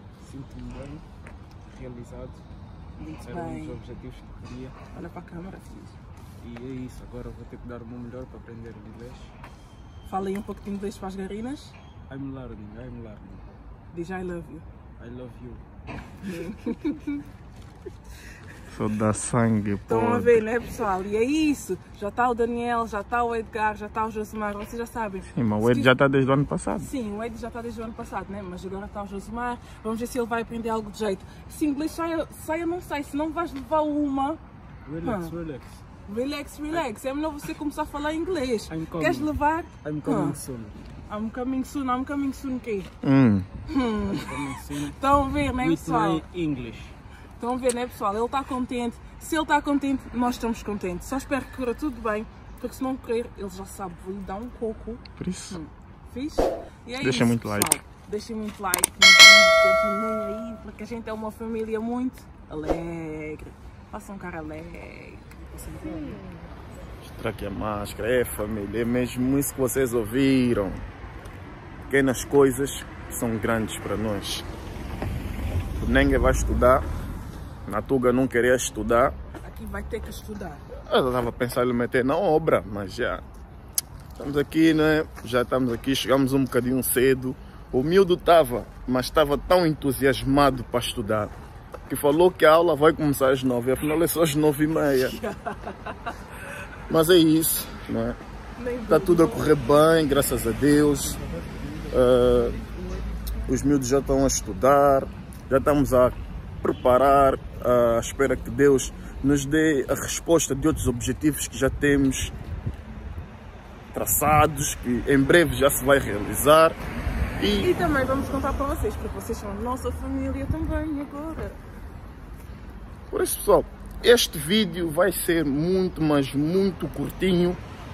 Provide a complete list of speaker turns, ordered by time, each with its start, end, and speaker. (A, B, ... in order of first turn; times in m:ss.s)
0:00.2-0:01.0 A
0:01.6-0:02.4 A
0:03.0-0:03.8 B
0:03.2-0:04.8 A
0:04.9-0:06.0 B
0:06.4-0:09.3 A
0:10.0-0:11.7 B
0:12.1-0:13.5 A
0:13.9-0:14.6 B
0:15.0-0:15.6 A
0:16.2-0:17.2 B
0:18.7-0:20.4 C
0:19.9-0:25.9 B
0:25.3-0:26.9 C
0:26.8-0:34.4 B
0:34.9-0:35.8 A
0:35.0-0:35.3 B
0:36.0-0:40.4 B
0:38.7-0:40.8 A
0:41.1-0:42.9 B
0:43.0-0:43.5 C
0:43.7-0:46.2 B
0:44.0-0:47.0 A
0:47.4-1:06.3 B
0:55.2-0:55.6 C
0:57.0-0:57.8 C
1:07.0-1:10.8 C
1:11.9-1:14.5 C
1:15.8-1:16.8 C
1:17.7-1:19.2 C
1:19.4-1:20.6 B
1:20.9-1:23.2 C
1:24.2-1:31.3 C
1:31.9-1:35.2 C
1:35.1-1:36.1 B
1:36.9-1:38.2 C
1:38.6-1:39.6 B
1:38.9-1:41.2 C
1:40.9-1:42.6 A
1:41.9-1:42.6 C
1:43.5-1:52.3 C
1:53.9-1:56.8 C
1:57.4-1:57.7 C
1:57.6-2:01.6 B
2:03.1-2:07.6 C